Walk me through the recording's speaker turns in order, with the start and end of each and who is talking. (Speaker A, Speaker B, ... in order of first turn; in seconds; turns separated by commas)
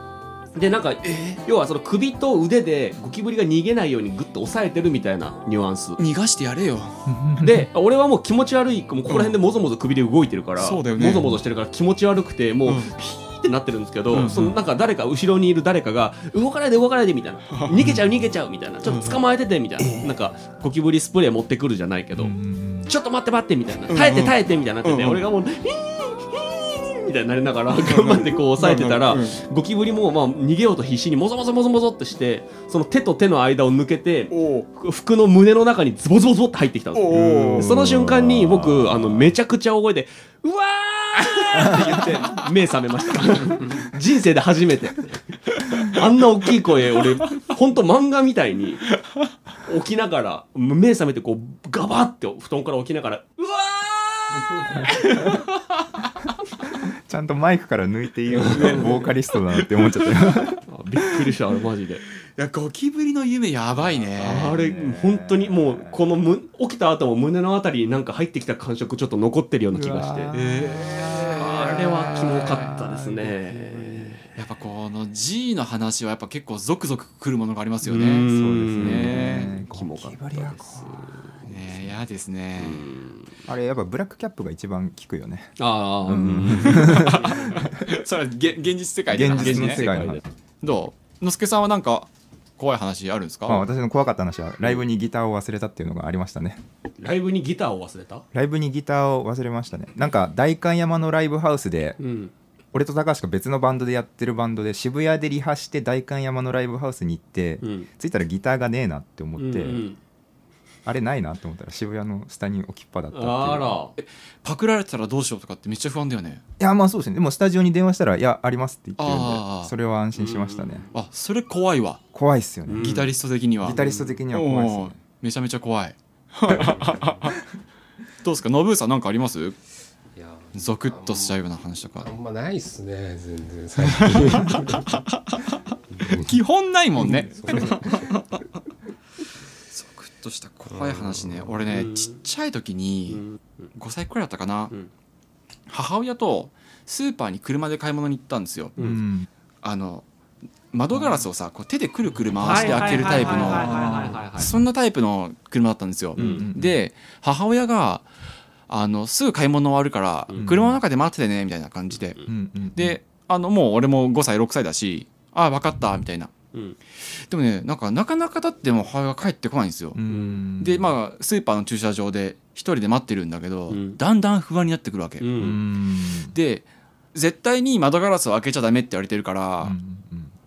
Speaker A: 0.5-6.0, Speaker B: 1.0-1.4, Speaker B: 6.0-6.9, Speaker C: 7.0-7.7, Speaker A: 7.4-48.9, Speaker B: 9.1-9.4, Speaker B: 10.6-11.4, Speaker B: 12.6-12.9, Speaker B: 14.1-14.6, Speaker B: 17.5-17.9, Speaker C: 17.8-18.1, Speaker B: 18.8-19.2, Speaker C: 19.8-20.2, Speaker C: 22.1-22.9, Speaker B: 23.9-25.2, Speaker B: 27.7-29.4, Speaker B: 34.3-34.7, Speaker B: 36.9-37.8, Speaker C: 37.1-39.3, Speaker A: 49.6-55.4, Speaker C: 57.1-60.6, Speaker A: 58.3-59.0, Speaker A: 60.7-62.0, Speaker B: 62.4-64.6, Speaker C: 63.8-66.1, Speaker A: 64.2-70.4, Speaker C: 69.7-70.6, Speaker B: 70.3-72.7, Speaker A: 71.4-74.2, Speaker C: 72.6-74.2, Speaker B: 74.3-79.5, Speaker A: 77.8-81.4, Speaker C: 78.3-81.9, Speaker B: 81.5-82.8, Speaker A: 82.6-83.4, Speaker C: 83.4-87.7, Speaker A: 85.6-87.1, Speaker B: 86.5-89.9, Speaker C: 89.1-90.2, Speaker A: 89.3-90.2, Speaker B: 90.6-93.7, Speaker C: 93.5-96.6, Speaker A: 97.0-98.2, Speaker C: 98.3-102.0, Speaker A: 102.0-102.3, Speaker C: 102.7-109.9, Speaker A: 107.6-107.9, Speaker A: 109.4-110.0, Speaker C: 110.8-113.8, Speaker A: 113.1-113.9, Speaker B: 114.0-116.4, Speaker C: 116.6-120.9, Speaker B: 119.0-119.7, Speaker A: 120.1-120.9, Speaker B: 120.9-122.0, Speaker C: 122.1-123.0, Speaker A: 122.7-123.1, Speaker B: 122.8-127.4, Speaker C: 123.6-125.0, Speaker A: 123.7-124.2, Speaker D: 126.5-127.2, Speaker B: 128.2-129.6, Speaker D: 130.1-131.4, Speaker B: 130.5-132.1, Speaker D: 131.9-134.9, Speaker B: 133.8-138.4, Speaker D: 135.9-136.2, Speaker D: 137.0-138.2, Speaker B: 139.7-144.7, Speaker D: 140.7-141.5, Speaker A: 141.7-142.1, Speaker B: 145.7-148.9, Speaker C: 148.8-149.3, Speaker B: 149.6-150.1, Speaker B: 150.7-158.0, Speaker A: 152.4-154.6, Speaker C: 153.5-154.1, Speaker A: 156.2-156.5, Speaker C: 156.2-156.8, Speaker B: 158.7-162.2, Speaker C: 160.4-160.8, Speaker C: 162.2-162.9, Speaker B: 162.7-166.3, Speaker B: 167.1-170.0, Speaker C: 169.9-170.9, Speaker A: 170.1-170.4, Speaker B: 170.6-175.5, Speaker A: 173.7-174.0, Speaker A: 175.2-175.6, Speaker C: 175.4-176.3, Speaker B: 176.3-179.7, Speaker C: 179.6-180.3